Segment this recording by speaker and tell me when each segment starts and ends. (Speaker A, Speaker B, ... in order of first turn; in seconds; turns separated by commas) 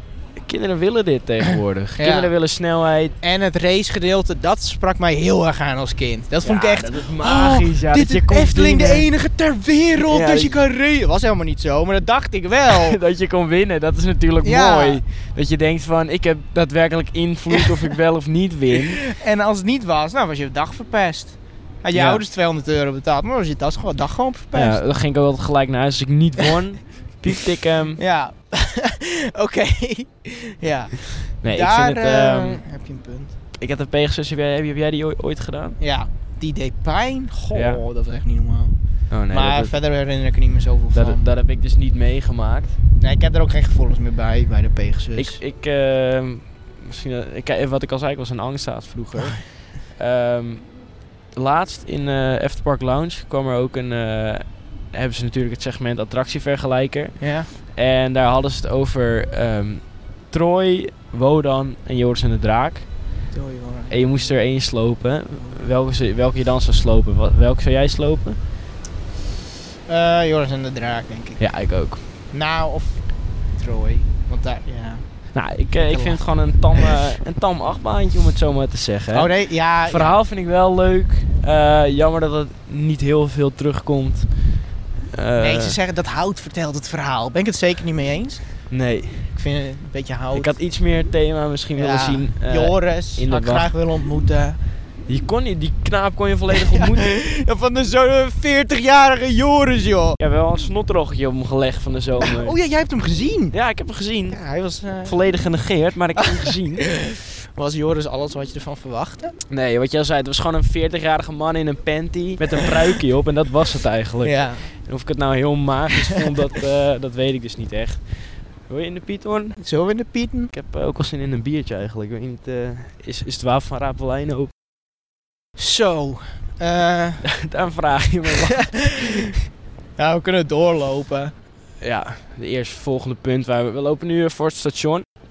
Speaker A: 0.4-3.2, Speaker B: 2.0-2.3, Speaker B: 3.2-13.0, Speaker A: 6.4-9.1, Speaker A: 10.0-10.6, Speaker A: 12.7-19.1, Speaker B: 14.4-15.0, Speaker B: 17.5-17.9, Speaker B: 18.7-24.8, Speaker A: 21.9-22.2, Speaker A: 24.5-28.0, Speaker B: 28.0-33.3, Speaker A: 31.4-32.6, Speaker A: 33.6-35.8, Speaker B: 35.8-38.8, Speaker A: 37.5-37.8, Speaker A: 39.1-39.7, Speaker B: 39.3-41.2, Speaker A: 40.9-42.8, Speaker B: 43.0-45.4, Speaker A: 45.2-50.7, Speaker A: 51.4-62.9, Speaker B: 57.2-57.5, Speaker B: 63.3-64.3, Speaker A: 63.9-68.4, Speaker B: 69.9-71.4, Speaker A: 71.4-72.0, Speaker B: 72.3-75.0, Speaker A: 75.3-79.3, Speaker B: 75.8-76.2, Speaker B: 79.1-80.2, Speaker A: 79.8-84.3, Speaker A: 85.1-85.8, Speaker B: 85.4-88.4, Speaker A: 88.7-89.3, Speaker B: 89.3-90.5, Speaker A: 90.3-93.7, Speaker B: 91.8-94.6, Speaker A: 95.1-97.1, Speaker B: 96.5-100.2, Speaker A: 100.2-102.6, Speaker B: 102.2-103.5, Speaker A: 103.5-104.4, Speaker B: 104.3-105.2, Speaker A: 105.0-106.9, Speaker B: 106.2-109.3, Speaker A: 109.5-118.1, Speaker B: 114.2-114.7, Speaker A: 118.7-119.6, Speaker B: 119.6-120.5, Speaker A: 120.5-124.5, Speaker B: 125.6-127.2, Speaker A: 127.2-129.4, Speaker B: 128.4-129.3, Speaker B: 130.0-131.3, Speaker A: 131.8-135.1